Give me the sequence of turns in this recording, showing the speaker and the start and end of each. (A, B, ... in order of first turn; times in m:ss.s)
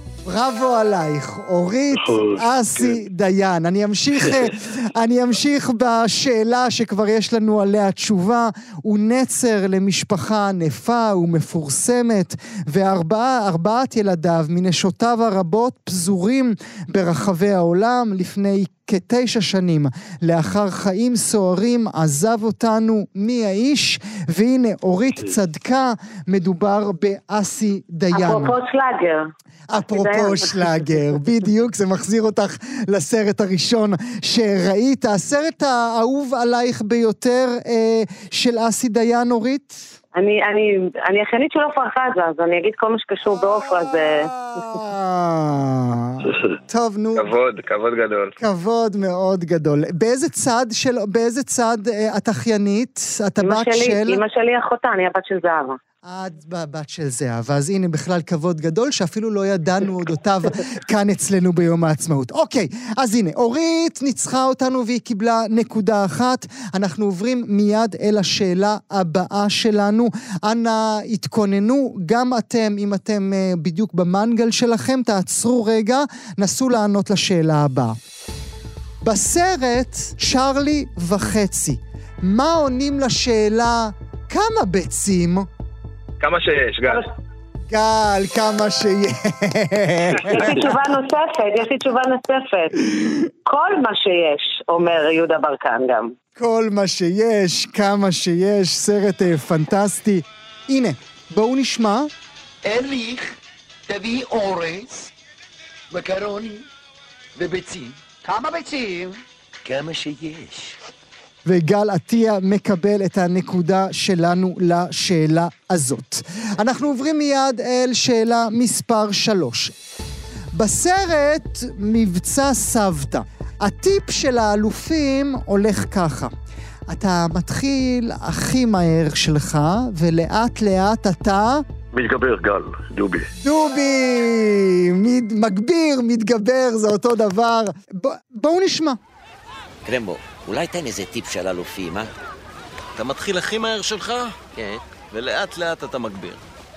0:00.2-0:28.6 A
0:02.0-0:03.0 B
0:28.1-0:29.3 C
0:29.7-0:39.8 A
0:29.9-0:30.7 C
0:40.1-0:44.3 C
0:43.5-0:47.3 A
0:47.2-0:48.3 D
0:48.4-0:54.2 A
0:53.4-0:55.8 C
0:56.0-1:18.0 A
1:19.0-1:25.5 A
1:26.2-1:27.0 D
1:27.7-1:30.7 A
1:30.2-1:32.8 C
1:33.4-1:36.1 C
1:36.4-1:42.1 A
1:42.6-1:43.4 E
1:43.9-1:44.9 E
1:45.9-1:46.6 E
1:47.4-1:49.2 E
1:49.7-1:50.7 F
1:51.4-1:59.7 A
2:00.5-2:06.3 A
2:06.9-2:11.6 A
2:11.9-2:13.3 B
2:13.4-2:19.0 A
2:19.8-2:22.1 F
2:23.0-2:26.4 G